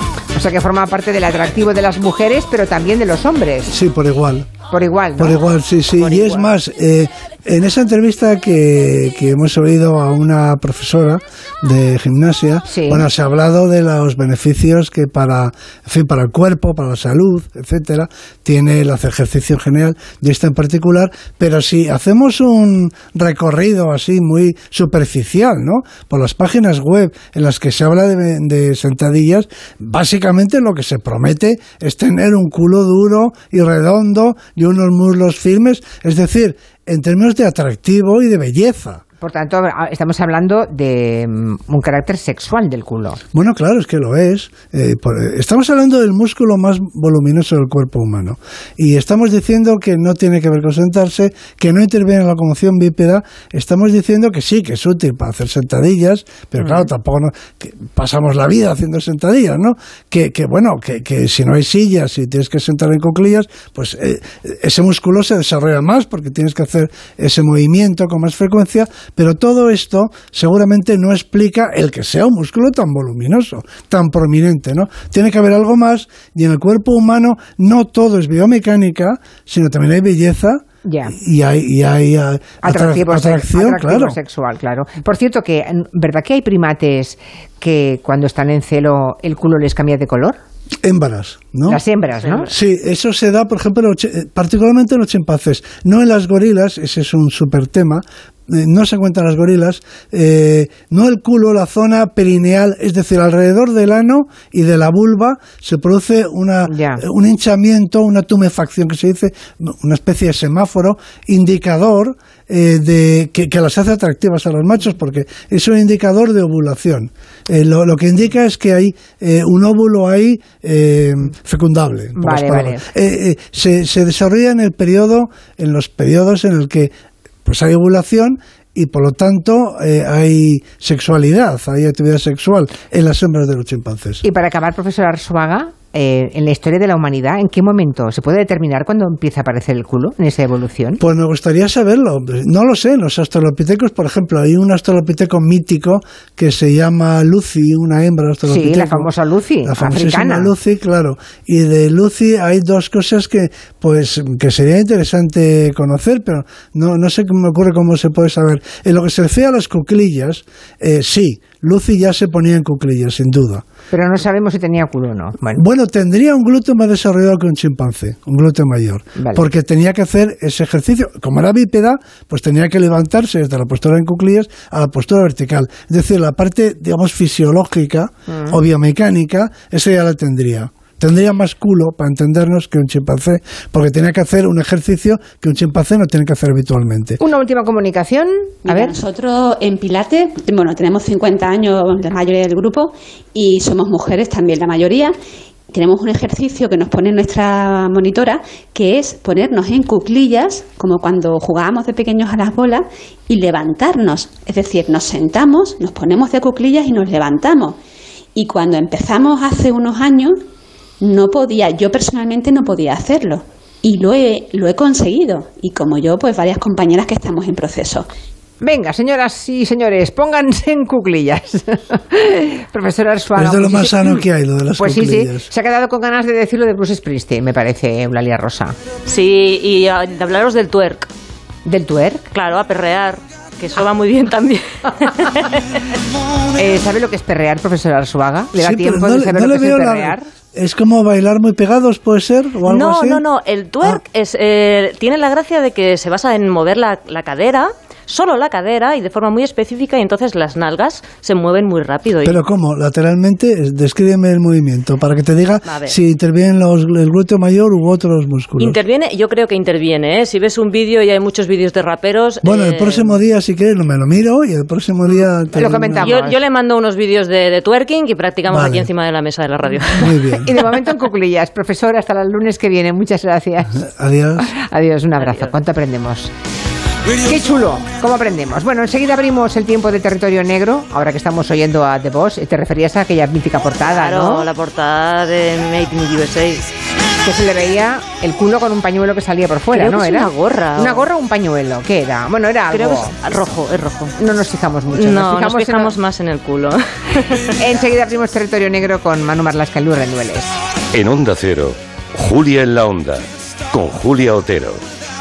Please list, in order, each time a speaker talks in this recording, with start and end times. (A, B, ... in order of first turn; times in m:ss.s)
0:00.3-0:03.7 A
0:03.7-0:04.5 B
0:04.7-0:05.4 A
0:05.2-0:39.0 B
0:06.0-0:06.5 C
0:12.7-0:13.0 A
0:39.2-0:43.2 A
0:43.3-1:24.2 B
1:20.8-1:21.1 A
1:22.6-1:30.4 A
1:30.8-1:31.8 B
1:31.7-1:32.5 A
1:32.2-1:32.5 C
1:32.5-2:06.9 B
1:46.7-1:47.0 A
2:02.2-2:02.8 A
2:07.4-2:14.2 B
2:14.2-2:21.0 A
2:21.0-2:29.1 B
2:28.4-2:30.5 A
2:29.6-2:43.6 B
2:43.9-2:45.6 A
2:45.5-3:07.2 B
2:49.2-2:49.4 A
2:58.3-2:58.6 A
3:07.2-3:09.0 A
3:08.6-3:15.2 D
3:15.7-3:27.8 D
3:28.3-3:30.4 D
3:31.0-3:38.1 D
3:38.6-3:44.2 A
3:43.4-3:45.5 B
3:44.8-3:48.8 A
3:49.1-3:51.1 C
3:51.6-3:52.3 A
3:52.3-3:55.8 C
3:56.5-4:00.3 A
3:58.5-4:03.2 B
4:02.7-4:12.4 C
4:12.2-4:18.8 B
4:15.6-4:16.0 C
4:18.6-4:23.1 C
4:22.4-4:26.1 B
4:25.5-4:26.4 A
4:26.0-4:30.1 C
4:28.5-4:28.9 B
4:29.9-4:30.5 B
4:30.3-4:33.8 A
4:33.8-4:34.5 B
4:34.4-4:36.3 A
4:35.2-4:35.5 C
4:37.2-4:44.5 A
4:43.8-4:46.7 C
4:47.2-4:53.1 A
4:49.7-4:51.1 C
4:52.7-4:54.2 C
4:54.2-4:55.9 A
4:54.9-4:57.5 C
4:57.6-5:00.5 A
5:00.9-5:04.8 E